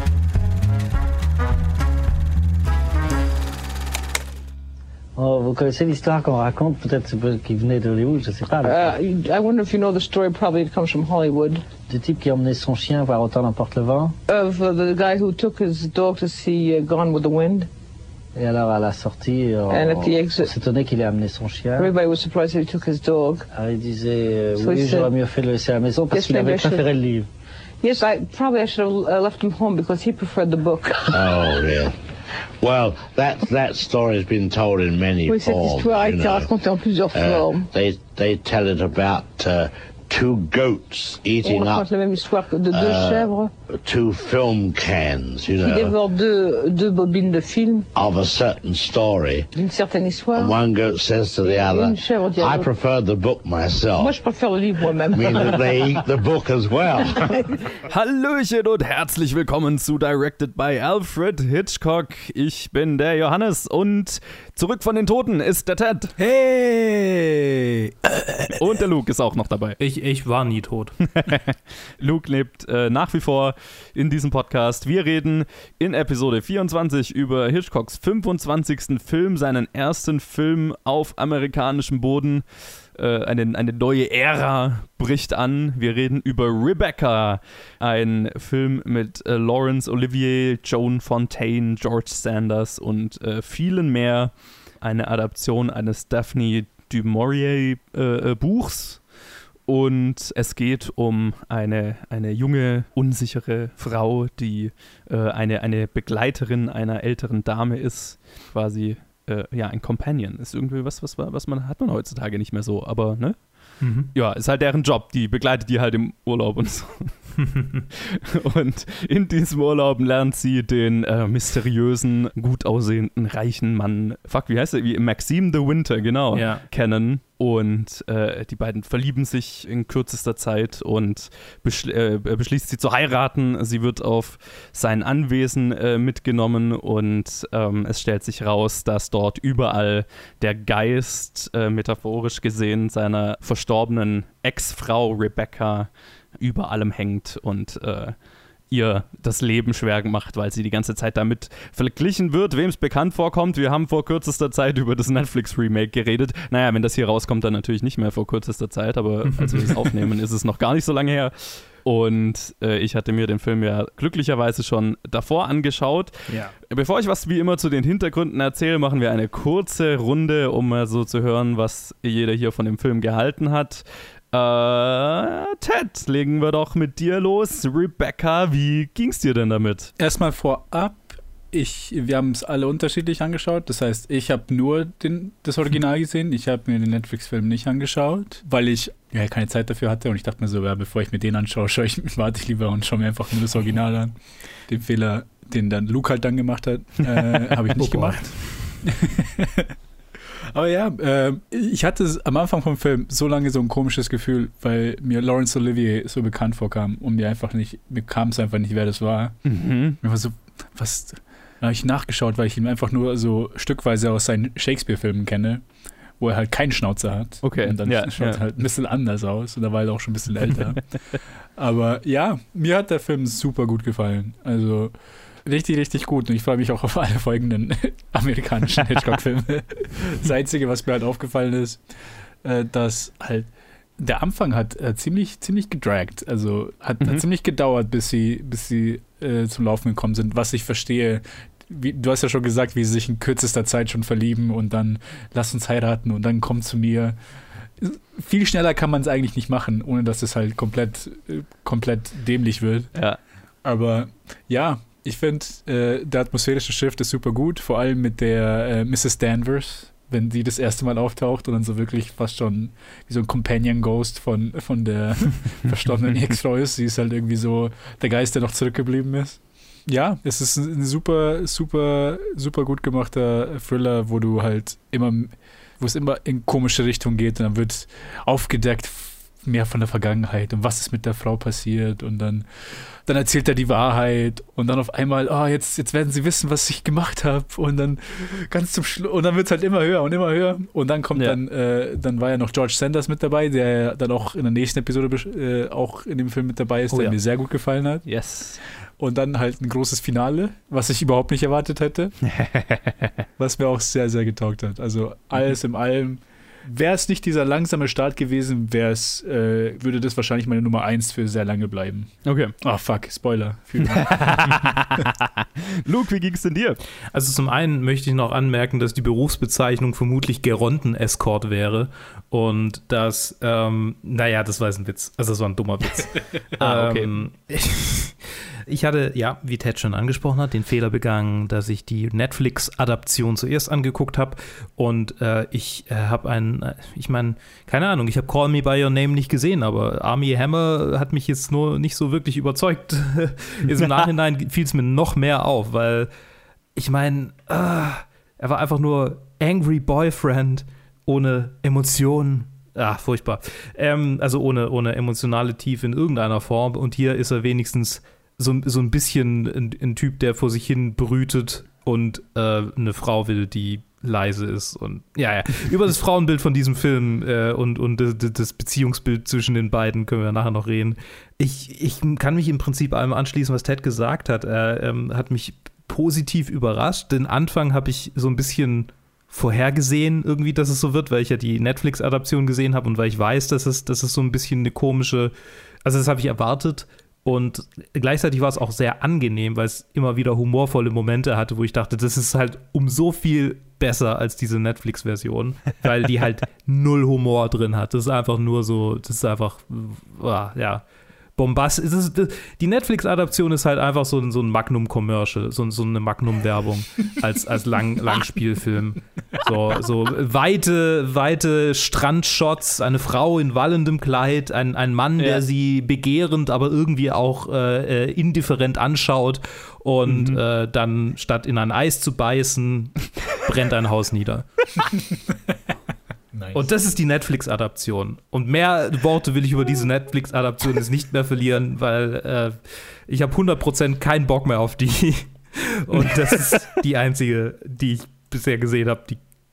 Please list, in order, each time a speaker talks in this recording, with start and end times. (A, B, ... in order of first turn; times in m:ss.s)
0:05.2-0:09.0 A
0:08.6-0:11.6 B
0:11.9-0:14.1 A
0:14.3-0:17.7 B
0:18.4-0:21.9 A
0:19.7-0:20.5 B
0:21.8-0:23.5 B
0:23.5-0:27.3 A
0:24.6-0:25.1 B
0:26.1-0:26.9 B
0:27.8-0:31.5 B
0:31.1-0:31.9 C
0:32.6-0:36.6 C
0:35.2-0:37.6 B
0:37.1-0:41.9 C
0:41.4-0:43.5 B
0:42.7-0:46.0 C
0:45.6-0:47.9 B
0:47.9-0:49.5 C
0:49.5-0:50.6 B
0:50.3-0:54.2 C
0:51.4-0:52.7 B
0:54.0-0:56.0 B
0:55.1-0:57.4 C
0:57.1-0:57.6 B
0:57.9-1:06.1 D
1:06.2-1:08.5 E
1:08.6-1:09.8 D
1:09.8-1:11.0 F
1:11.1-1:22.4 D
1:22.9-1:39.0 D
1:39.7-1:53.4 D
1:53.8-1:54.1 F
1:54.1-1:57.2 D
1:57.5-1:57.8 F
1:58.2-2:28.2 D
2:06.3-2:06.6 F
2:28.7-2:59.9 D
2:39.3-2:40.0 F
2:46.3-2:46.5 F
3:00.0-3:14.1 E
3:14.7-3:19.7 E
3:17.7-3:18.8 F
3:20.5-3:29.4 E
3:29.4-3:30.0 D
3:30.0-3:35.6 E
3:36.2-3:40.8 E
3:37.4-3:38.4 D
3:41.6-3:51.8 E
3:52.4-4:07.2 E
4:07.8-4:12.9 E
4:13.6-4:58.1 E
4:56.9-4:57.2 F
4:58.0-4:58.6 D
4:59.0-5:02.1 E
5:02.2-5:03.1 D
5:03.4-5:14.6 E
5:12.2-5:12.5 D
5:14.0-5:16.8 D
5:17.1-5:46.1 F
5:26.6-5:27.1 D
5:43.7-5:44.1 D
5:46.8-6:25.3 F
6:25.8-6:40.8 F
6:41.4-7:05.0 F
7:00.0-7:00.4 D
7:06.3-7:06.7 E
7:06.5-7:19.2 F